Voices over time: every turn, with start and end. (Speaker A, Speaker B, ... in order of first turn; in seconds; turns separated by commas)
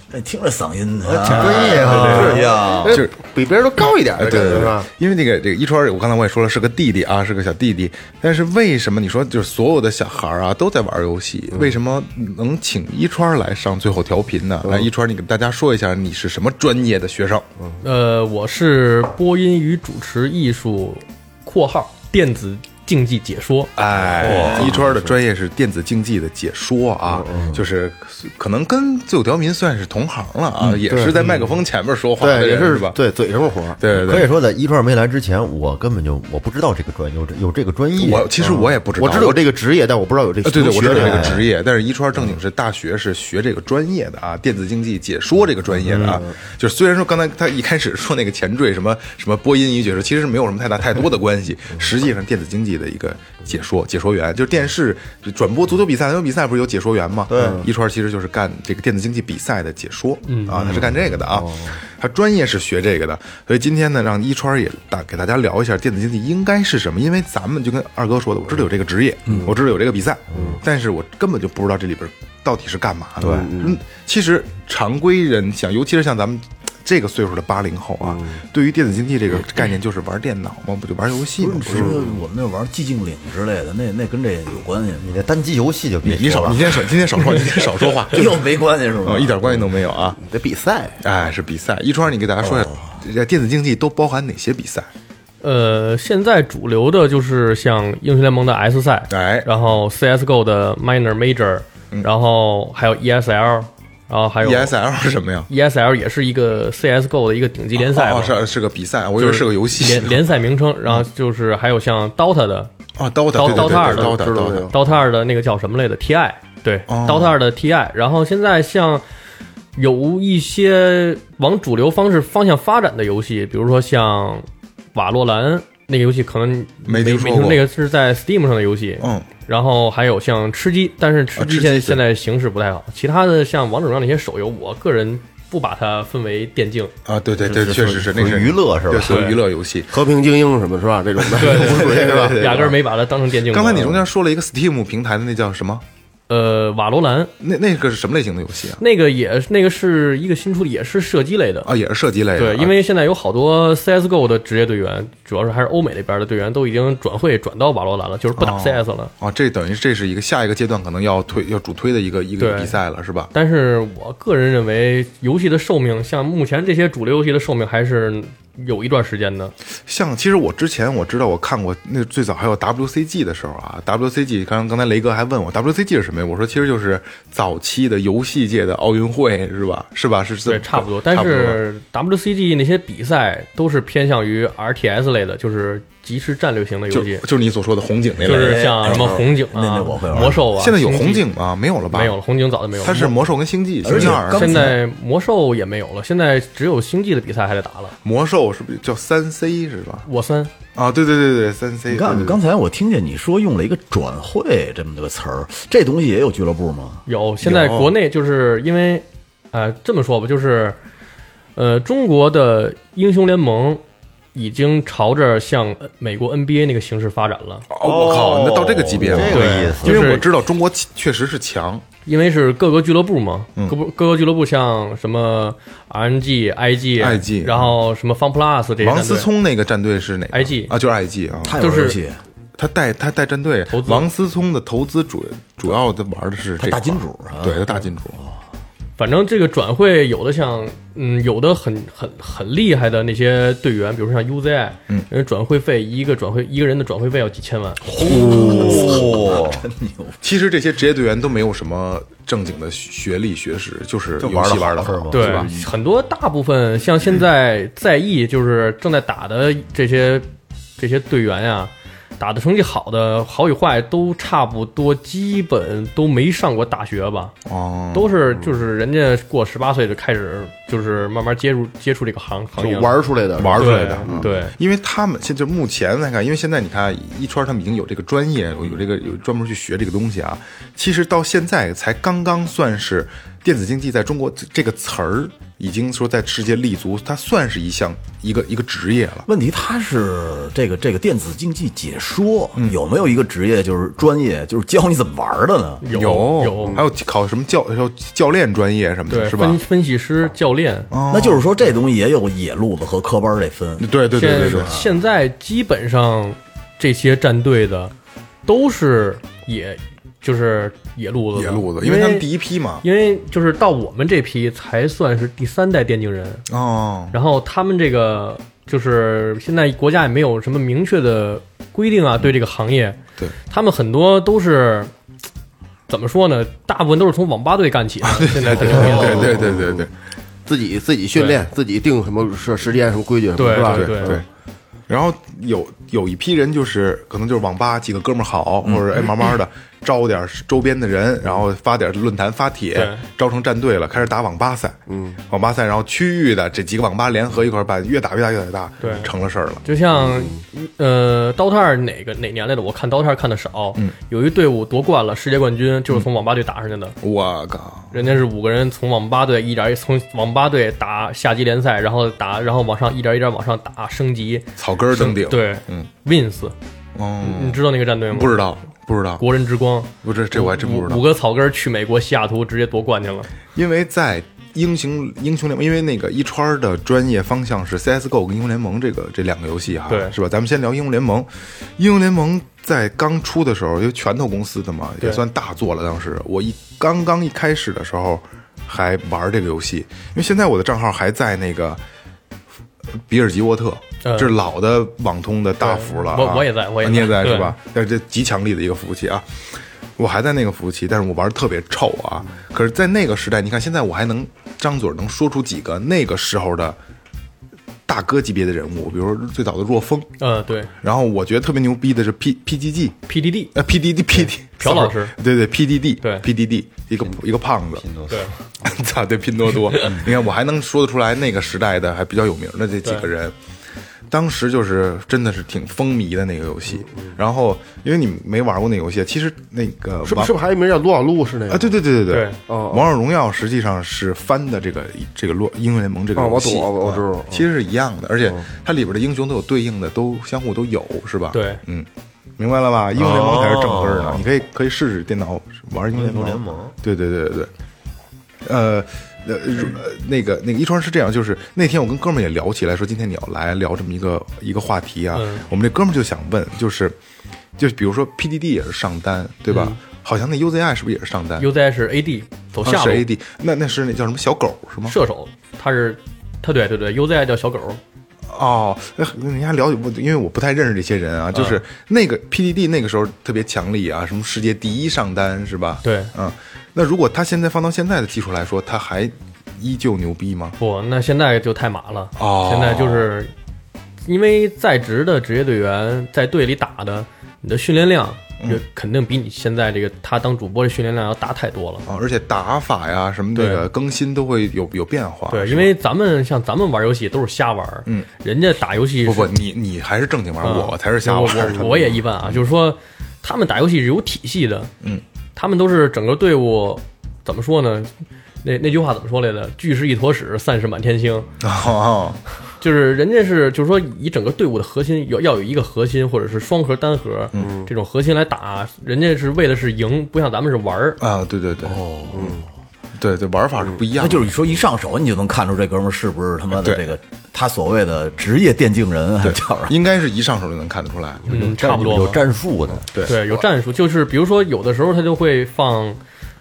Speaker A: 0.1-3.0, Speaker B: 1.1-2.4, Speaker C: 1.3-4.9, Speaker D: 1.3-3.1, Speaker D: 4.2-17.4, Speaker E: 17.8-23.7, Speaker D: 23.8-33.0, Speaker A: 24.1-24.9, Speaker B: 24.2-24.8, Speaker C: 24.3-24.7, Speaker C: 27.0-27.6, Speaker C: 30.9-31.6, Speaker C: 32.2-33.8, Speaker D: 33.8-34.3, Speaker B: 33.9-38.6, Speaker D: 38.0-39.4, Speaker C: 38.0-41.5, Speaker D: 40.4-81.9, Speaker B: 40.9-41.4, Speaker B: 45.8-46.2, Speaker C: 45.9-46.3, Speaker B: 57.3-57.6, Speaker C: 57.4-57.7, Speaker E: 60.2-60.6, Speaker C: 60.8-61.8, Speaker C: 70.3-70.6, Speaker C: 73.2-73.8, Speaker C: 78.0-78.4, Speaker A: 81.4-85.1, Speaker C: 81.7-82.2, Speaker B: 85.0-86.7, Speaker D: 86.1-88.3, Speaker A: 86.5-89.7, Speaker D: 89.0-90.2, Speaker C: 90.2-91.0, Speaker D: 91.0-94.9, Speaker A: 92.4-93.0, Speaker E: 95.4-104.8, Speaker D: 99.1-99.5, Speaker D: 104.4-105.5, Speaker E: 105.5-108.4, Speaker D: 107.8-110.3, Speaker E: 109.2-112.7, Speaker D: 113.0-114.7, Speaker E: 113.3-114.2, Speaker C: 113.4-114.7, Speaker E: 114.7-119.0, Speaker D: 116.9-117.4, Speaker E: 119.8-136.9, Speaker D: 126.8-127.7, Speaker D: 129.0-129.3, Speaker D: 131.4-132.0, Speaker D: 137.1-139.9, Speaker B: 137.4-139.3, Speaker E: 139.0-139.4, Speaker C: 139.9-142.7, Speaker E: 141.4-144.0, Speaker D: 141.4-142.8, Speaker D: 143.4-145.8, Speaker E: 146.3-147.3, Speaker D: 147.4-148.8, Speaker E: 148.8-151.7, Speaker D: 151.7-152.8, Speaker E: 152.4-159.1, Speaker D: 158.4-163.3, Speaker E: 162.4-162.8, Speaker E: 163.3-169.5, Speaker D: 169.9-181.6, Speaker E: 180.5-187.2, Speaker D: 186.9-189.1, Speaker A: 188.2-190.4, Speaker E: 188.2-191.2, Speaker D: 190.2-192.2, Speaker E: 191.9-193.2, Speaker D: 192.8-194.8, Speaker A: 193.8-194.8, Speaker E: 194.0-197.9, Speaker D: 198.0-200.1, Speaker E: 200.1-200.5, Speaker D: 200.8-202.4, Speaker A: 201.9-207.0, Speaker E: 207.1-210.8, Speaker D: 207.4-207.9, Speaker E: 211.6-213.8, Speaker E: 214.3-217.7, Speaker D: 217.7-221.8, Speaker B: 217.8-220.1, Speaker E: 219.3-220.3, Speaker E: 222.1-229.3, Speaker D: 227.0-227.8, Speaker D: 228.8-231.6, Speaker E: 230.3-230.7, Speaker A: 231.4-232.2, Speaker E: 231.6-232.0, Speaker D: 232.6-238.2, Speaker E: 233.7-234.1, Speaker A: 236.6-238.4, Speaker E: 239.0-248.0, Speaker A: 247.9-250.2, Speaker B: 248.0-249.7, Speaker D: 250.2-255.5, Speaker B: 254.2-255.4, Speaker A: 254.2-255.6, Speaker E: 255.1-260.2, Speaker E: 260.8-267.4, Speaker D: 267.5-268.1, Speaker E: 267.9-273.0, Speaker C: 272.6-274.3, Speaker D: 273.4-289.3, Speaker E: 273.6-274.6, Speaker A: 289.3-295.8, Speaker E: 295.8-296.8, Speaker D: 295.9-299.6, Speaker E: 299.1-300.9, Speaker D: 300.9-301.4, Speaker A: 301.1-304.9, Speaker D: 303.8-304.8, Speaker E: 304.1-307.9, Speaker E: 308.5-312.3, Speaker D: 311.4-312.9, Speaker E: 312.8-316.4, Speaker D: 316.5-317.2, Speaker E: 317.1-323.0, Speaker E: 323.5-324.9, Speaker E: 325.9-329.4, Speaker D: 328.0-329.9, Speaker C: 328.8-329.9, Speaker C: 330.5-334.2, Speaker E: 333.4-334.2, Speaker D: 333.6-334.3, Speaker D: 334.9-344.8, Speaker A: 338.6-339.1, Speaker E: 342.7-343.0, Speaker C: 344.9-345.2, Speaker D: 345.3-349.6, Speaker E: 348.8-349.1, Speaker E: 349.6-357.0, Speaker C: 350.1-350.4, Speaker D: 357.0-358.0, Speaker E: 357.9-366.6, Speaker D: 364.6-365.9, Speaker D: 367.0-369.2, Speaker E: 367.2-368.4, Speaker E: 369.2-373.3, Speaker D: 370.0-371.0, Speaker D: 373.5-391.8, Speaker E: 379.9-380.1, Speaker D: 393.1-399.3, Speaker E: 394.0-394.4, Speaker E: 395.6-397.6, Speaker D: 400.0-406.8, Speaker D: 407.9-410.1, Speaker E: 410.2-410.7, Speaker D: 410.8-413.0, Speaker E: 413.1-413.5, Speaker D: 413.5-417.9, Speaker E: 414.6-415.1, Speaker E: 416.0-416.3, Speaker B: 417.8-418.3, Speaker D: 418.6-423.3, Speaker E: 419.7-420.0, Speaker E: 422.8-423.1, Speaker D: 424.1-430.3, Speaker C: 426.9-427.1, Speaker C: 430.1-431.8, Speaker D: 431.5-441.9, Speaker E: 432.1-432.4, Speaker C: 432.5-432.9, Speaker C: 436.2-437.5, Speaker E: 441.3-441.6, Speaker D: 442.4-447.5, Speaker B: 443.0-444.2, Speaker B: 445.9-446.8, Speaker D: 448.4-457.0, Speaker E: 455.1-455.5, Speaker D: 457.6-461.5, Speaker E: 459.5-459.8, Speaker E: 461.4-463.1, Speaker D: 462.6-465.0, Speaker E: 464.9-467.8, Speaker D: 468.3-480.6, Speaker E: 471.3-471.6, Speaker E: 475.8-476.1, Speaker E: 480.6-483.3, Speaker D: 482.2-483.1, Speaker E: 484.1-491.9, Speaker D: 491.9-495.7, Speaker E: 493.4-493.7, Speaker E: 495.3-499.3, Speaker D: 499.0-502.4, Speaker E: 500.4-504.7, Speaker E: 505.4-507.9, Speaker E: 508.4-511.3, Speaker D: 511.4-512.2, Speaker E: 512.6-521.0, Speaker C: 517.4-517.7, Speaker D: 521.0-521.8, Speaker A: 521.6-522.4, Speaker C: 522.1-522.5, Speaker D: 523.0-524.4, Speaker A: 524.0-529.8, Speaker D: 526.6-526.9, Speaker D: 529.2-531.4, Speaker E: 531.3-532.2, Speaker B: 531.3-532.9, Speaker D: 532.9-533.2, Speaker E: 533.0-536.0